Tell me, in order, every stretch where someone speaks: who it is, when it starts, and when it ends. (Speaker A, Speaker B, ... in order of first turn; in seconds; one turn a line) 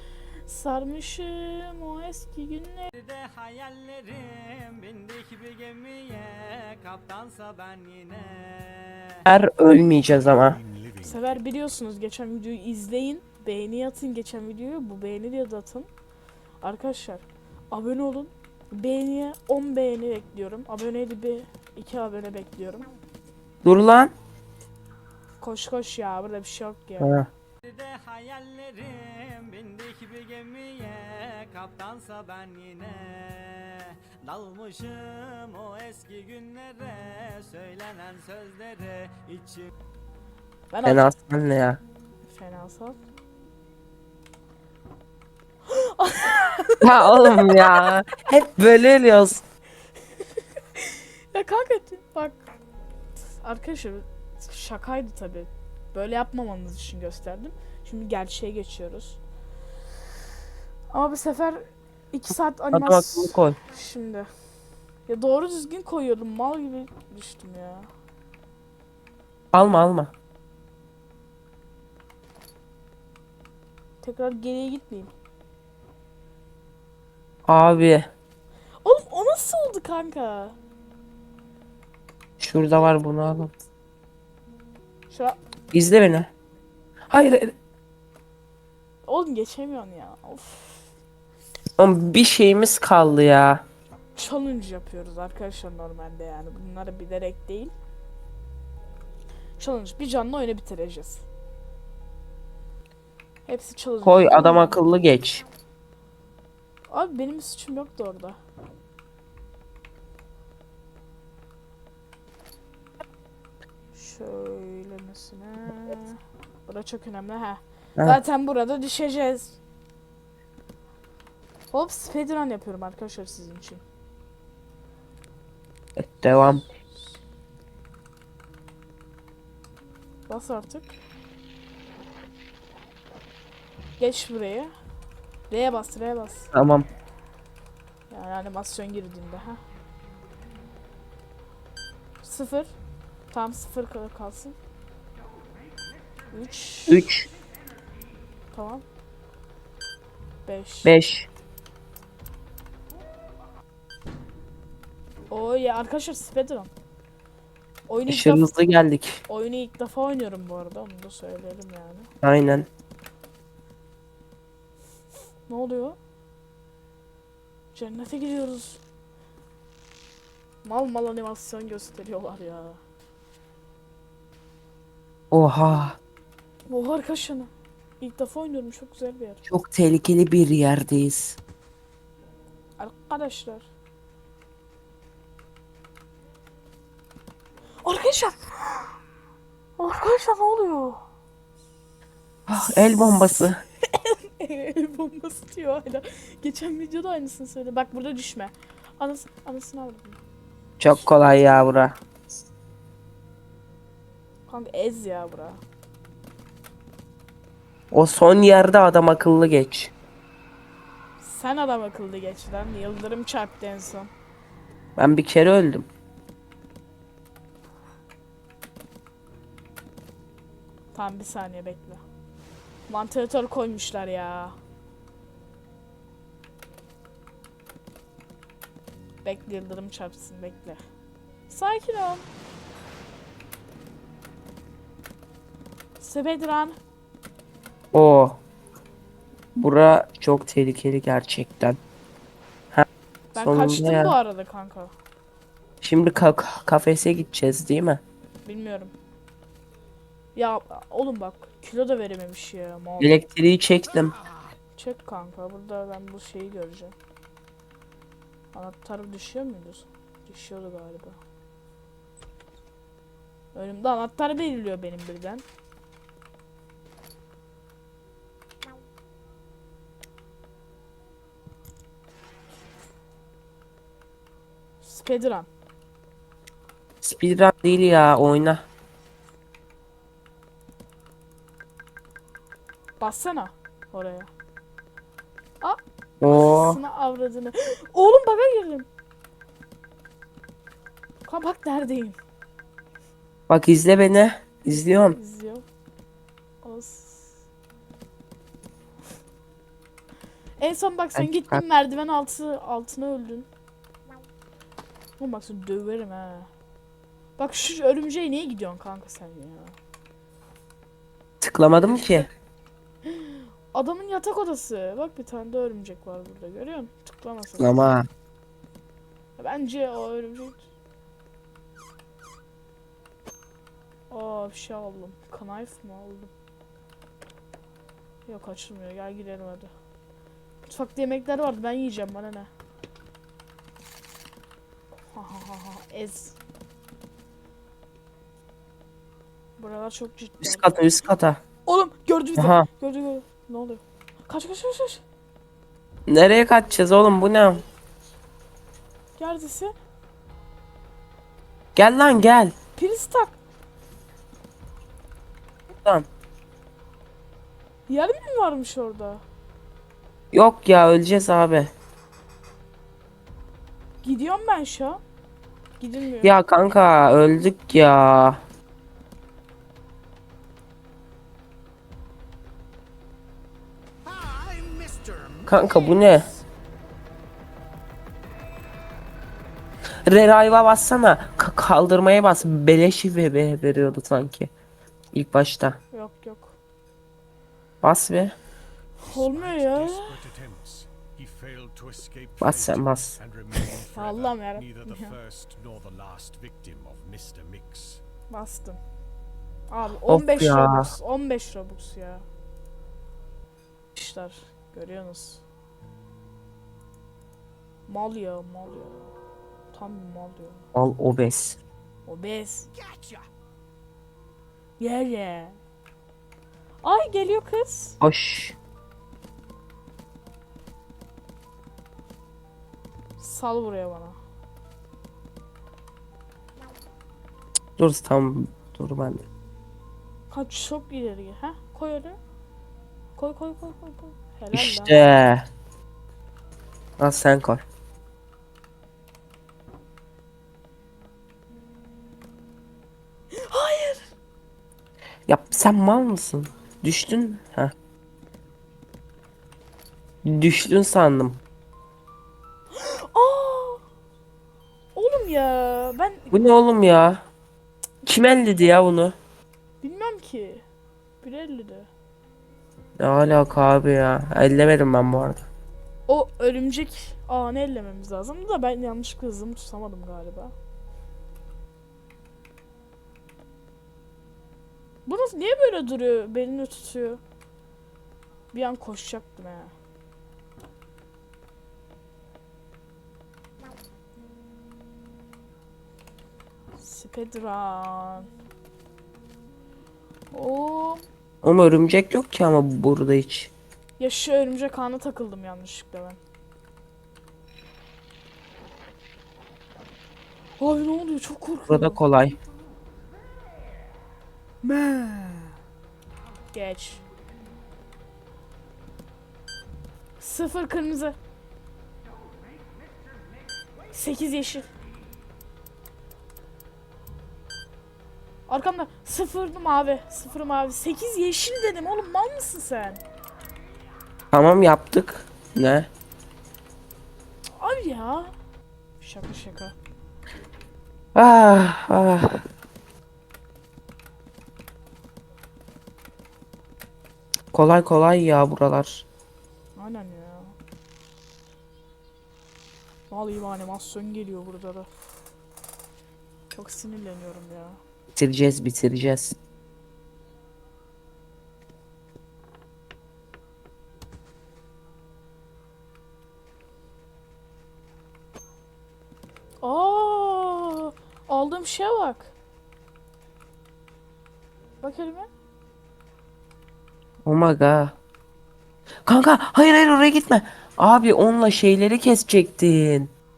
Speaker A: 0.5-2.9
Speaker B: 3.0-9.2
Speaker C: 9.3-10.6
Speaker D: 10.1-11.4
Speaker A: 11.0-15.9
Speaker A: 16.6-22.9
Speaker C: 23.6-24.1
Speaker A: 25.4-27.2
Speaker C: 27.0-27.3
Speaker B: 27.6-39.7
Speaker A: 40.7-41.1
Speaker C: 40.9-41.8
Speaker A: 42.3-43.0
Speaker A: 45.7-47.9
Speaker C: 46.8-49.4
Speaker A: 50.4-52.5
Speaker A: 53.4-59.2
Speaker A: 60.9-64.3
Speaker C: 62.7-63.6
Speaker A: 65.1-67.9
Speaker C: 69.5-70.1
Speaker A: 74.0-75.1
Speaker C: 77.5-78.1
Speaker A: 78.8-80.5
Speaker C: 82.4-83.5
Speaker A: 85.1-85.4
Speaker C: 85.7-86.3
Speaker C: 87.1-87.5
Speaker A: 89.1-90.9
Speaker C: 91.8-93.6
Speaker A: 94.2-97.7
Speaker A: 99.6-101.2
Speaker A: 103.5-104.8
Speaker C: 104.0-105.5
Speaker A: 106.9-108.4
Speaker A: 113.9-119.6
Speaker A: 121.7-123.8
Speaker C: 126.0-126.7
Speaker A: 130.3-130.9
Speaker A: 134.0-134.7
Speaker A: 135.5-136.5
Speaker C: 136.5-136.9
Speaker A: 138.1-139.6
Speaker A: 142.2-142.7
Speaker A: 143.3-144.6
Speaker A: 146.3-147.1
Speaker C: 146.9-147.3
Speaker A: 148.5-148.8
Speaker A: 150.4-150.9
Speaker C: 150.8-151.3
Speaker A: 155.3-156.7
Speaker A: 157.9-158.5
Speaker C: 158.1-159.2
Speaker A: 159.3-162.1
Speaker C: 162.2-162.7
Speaker A: 165.5-166.0
Speaker A: 167.7-168.8
Speaker A: 170.6-172.8
Speaker C: 175.3-176.0
Speaker A: 176.7-179.4
Speaker C: 179.5-181.4
Speaker A: 182.8-183.7
Speaker A: 187.8-189.0
Speaker A: 189.8-191.0
Speaker C: 192.5-193.6
Speaker A: 192.6-200.2
Speaker C: 200.8-202.0
Speaker A: 204.5-205.6
Speaker C: 207.9-209.9
Speaker A: 211.2-214.1
Speaker C: 215.0-215.9
Speaker A: 220.9-222.0
Speaker A: 222.9-224.6
Speaker A: 229.2-230.8
Speaker A: 231.5-232.2
Speaker A: 236.0-236.8
Speaker C: 237.9-238.4
Speaker C: 239.6-241.8
Speaker C: 242.7-244.2
Speaker A: 243.3-244.9
Speaker C: 245.8-248.0
Speaker A: 248.4-248.9
Speaker A: 250.3-253.2
Speaker C: 253.0-254.2
Speaker A: 254.8-256.9
Speaker A: 258.5-261.2
Speaker A: 263.5-265.4
Speaker A: 274.8-275.5
Speaker C: 277.0-278.6
Speaker A: 283.0-284.3
Speaker A: 285.6-288.9
Speaker C: 286.2-286.8
Speaker A: 291.3-292.2
Speaker C: 293.5-295.2
Speaker A: 295.1-295.6
Speaker A: 296.6-297.3
Speaker A: 300.6-303.5
Speaker C: 301.2-301.6
Speaker A: 305.2-306.5
Speaker A: 307.4-309.8
Speaker C: 311.4-312.3
Speaker A: 313.1-317.9
Speaker C: 317.6-318.1
Speaker A: 319.4-320.6
Speaker A: 324.1-326.3
Speaker A: 328.3-329.7
Speaker A: 330.7-332.5
Speaker A: 335.1-336.4
Speaker A: 339.6-340.8
Speaker C: 340.4-341.4
Speaker A: 341.7-345.0
Speaker C: 342.4-342.7
Speaker C: 346.1-347.6
Speaker A: 349.2-349.7
Speaker C: 351.8-352.5
Speaker A: 352.8-353.4
Speaker C: 355.7-356.1
Speaker A: 357.9-359.2
Speaker C: 360.3-361.7
Speaker A: 364.0-365.0
Speaker A: 365.8-366.4
Speaker C: 366.2-368.4
Speaker B: 374.0-375.5
Speaker C: 375.5-376.3
Speaker C: 380.1-384.5
Speaker C: 385.1-385.8
Speaker A: 385.9-386.6
Speaker C: 387.8-388.4
Speaker D: 389.0-398.0
Speaker A: 389.0-390.2
Speaker C: 392.4-393.2
Speaker A: 393.9-395.2
Speaker A: 398.3-398.8
Speaker A: 399.7-402.2
Speaker C: 400.1-400.9
Speaker A: 403.9-405.4
Speaker A: 407.9-409.1
Speaker A: 409.7-410.6
Speaker C: 410.8-411.6
Speaker A: 412.1-412.7
Speaker B: 412.8-413.2
Speaker A: 414.8-415.6
Speaker A: 416.8-418.0
Speaker C: 418.0-418.6
Speaker A: 423.2-424.2
Speaker C: 427.8-429.2
Speaker A: 430.3-432.2
Speaker A: 433.2-435.1
Speaker C: 434.5-435.5
Speaker C: 437.0-437.6
Speaker A: 443.3-444.1
Speaker C: 445.3-447.7
Speaker C: 450.2-451.4
Speaker A: 452.7-453.8
Speaker A: 454.9-456.3
Speaker C: 456.3-457.2
Speaker C: 458.0-459.2
Speaker A: 459.8-460.6
Speaker A: 461.2-461.9
Speaker C: 463.0-465.5
Speaker A: 466.1-470.5
Speaker A: 475.1-477.2
Speaker A: 478.5-479.7
Speaker A: 486.8-488.3
Speaker A: 490.3-491.0
Speaker C: 491.4-493.5
Speaker A: 494.0-496.2
Speaker A: 500.6-502.0
Speaker C: 501.7-502.4
Speaker A: 504.6-505.6
Speaker A: 506.5-507.0
Speaker A: 510.2-511.2
Speaker A: 513.9-514.7
Speaker A: 518.5-523.0
Speaker C: 524.3-525.9
Speaker A: 527.6-528.3
Speaker A: 529.0-529.8
Speaker C: 531.1-532.4
Speaker C: 537.5-539.0
Speaker A: 539.8-540.5
Speaker A: 543.1-544.9
Speaker A: 546.5-547.8
Speaker C: 548.1-549.4
Speaker A: 559.6-562.3
Speaker A: 564.8-565.3
Speaker C: 567.2-568.0
Speaker C: 569.1-573.1